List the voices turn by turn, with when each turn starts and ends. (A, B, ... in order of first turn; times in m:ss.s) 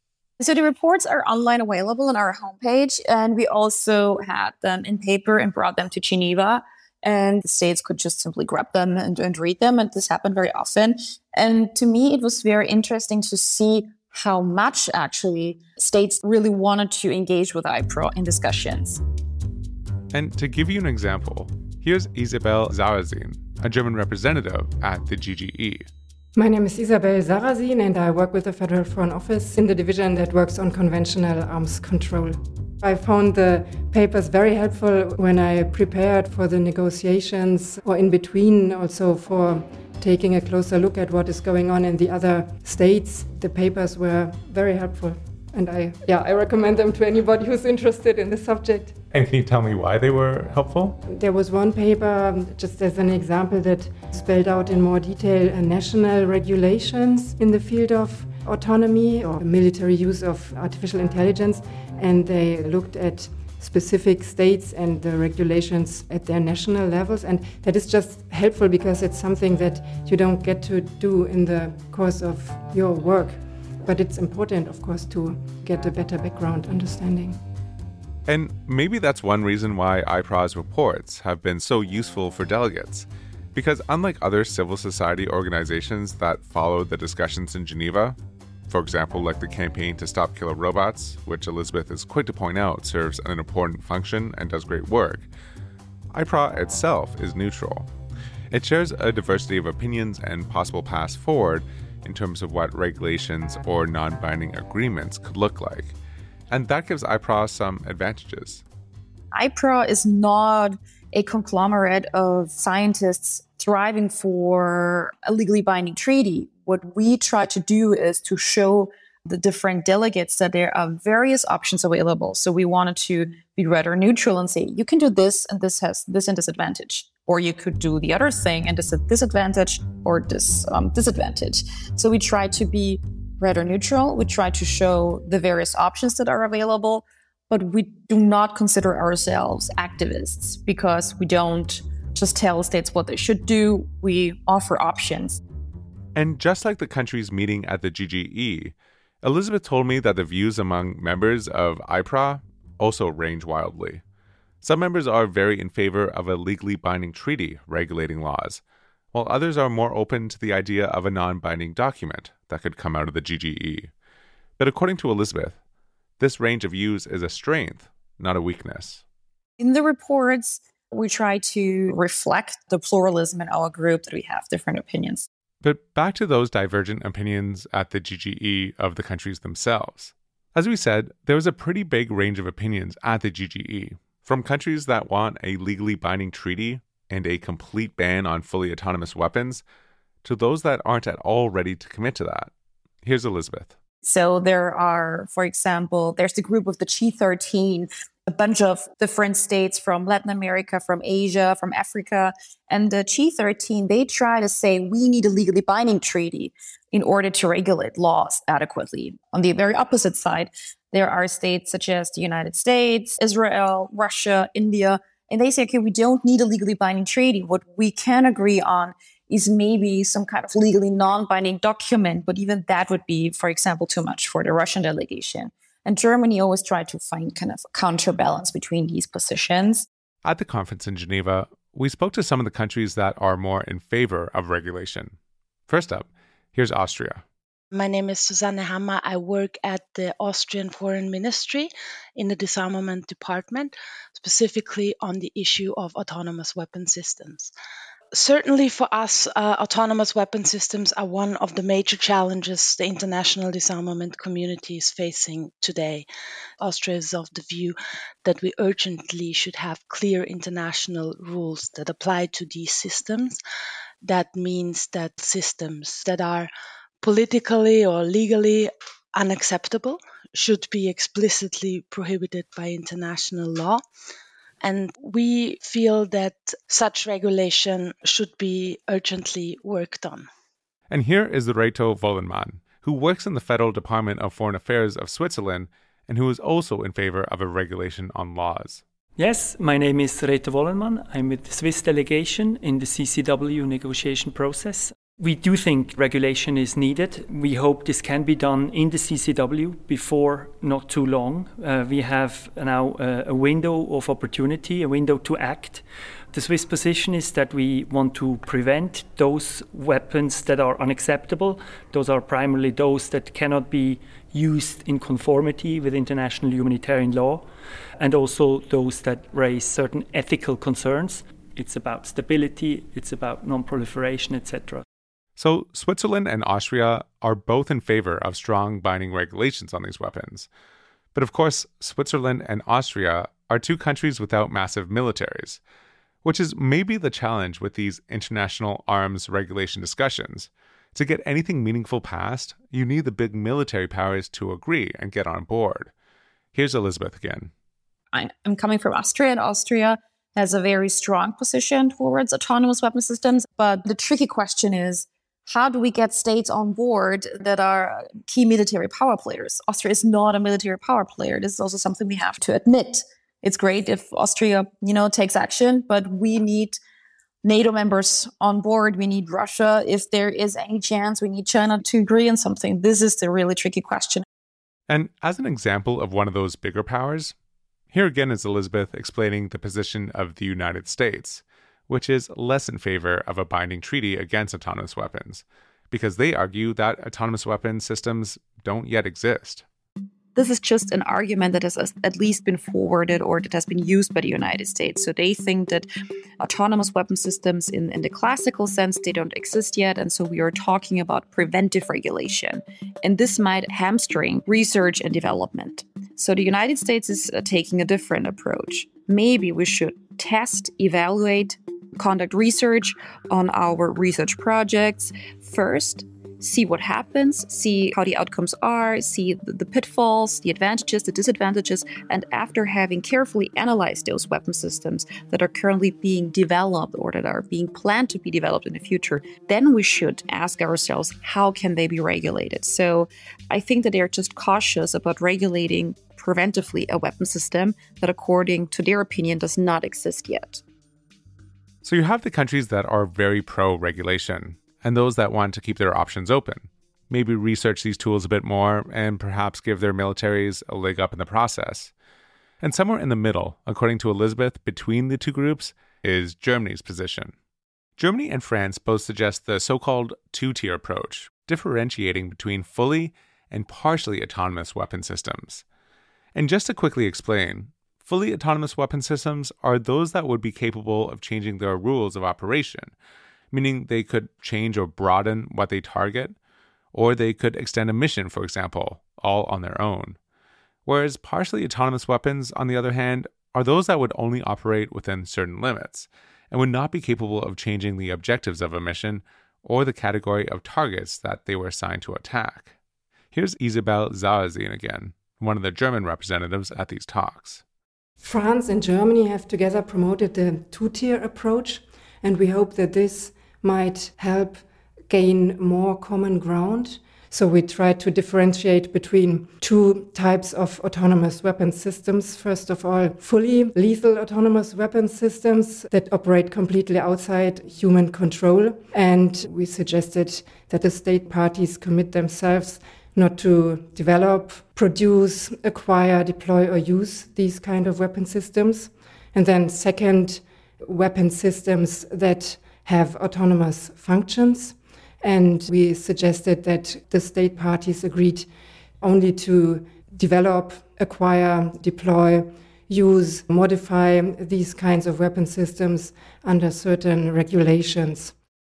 0:00.4-0:19.0 A
0:20.1-0:25.9 B
0:26.4-0:49.0 C
0:49.1-0:51.0 B
0:51.1-1:17.4 C
1:18.3-1:28.2 B
1:28.7-1:35.3 B
1:36.1-1:37.9 B
1:38.5-1:46.0 B
1:46.5-1:48.6 B
1:49.3-2:25.4 A
2:26.2-2:34.0 B
2:34.6-2:38.6 B
2:39.1-2:43.9 B
2:44.6-2:45.6 B
2:46.2-2:49.0 B
2:49.6-2:55.3 A
2:55.6-3:09.6 B
3:10.2-3:12.5 B
3:13.0-3:13.8 B
3:14.0-3:49.9 A
3:50.2-3:55.2 B
3:55.7-3:57.2 B
3:57.7-4:07.5 D
4:08.1-4:16.1 D
4:16.6-4:23.4 D
4:24.0-4:26.5 D
4:27.0-4:33.8 D
4:34.6-4:40.3 D
4:40.9-4:48.8 B
4:49.2-5:17.5 E
5:18.0-5:24.8 E
5:25.4-5:30.5 B
5:31.1-5:35.6 B
5:36.2-5:45.9 B
5:46.5-5:47.5 B
5:48.1-6:06.8 A
6:07.4-6:14.2 A
6:14.9-6:17.4 B
6:17.9-6:29.6 B
6:30.4-6:35.9 A
6:36.4-7:20.6 A
7:21.8-7:31.9 B
7:32.6-7:37.3 B
7:38.0-7:45.6 B
7:46.4-7:52.9 B
7:53.5-7:56.4 B
7:56.9-8:00.2 B
8:00.9-8:12.7 B
8:13.3-8:17.6 B
8:18.2-8:58.5 C
8:59.0-9:08.3 C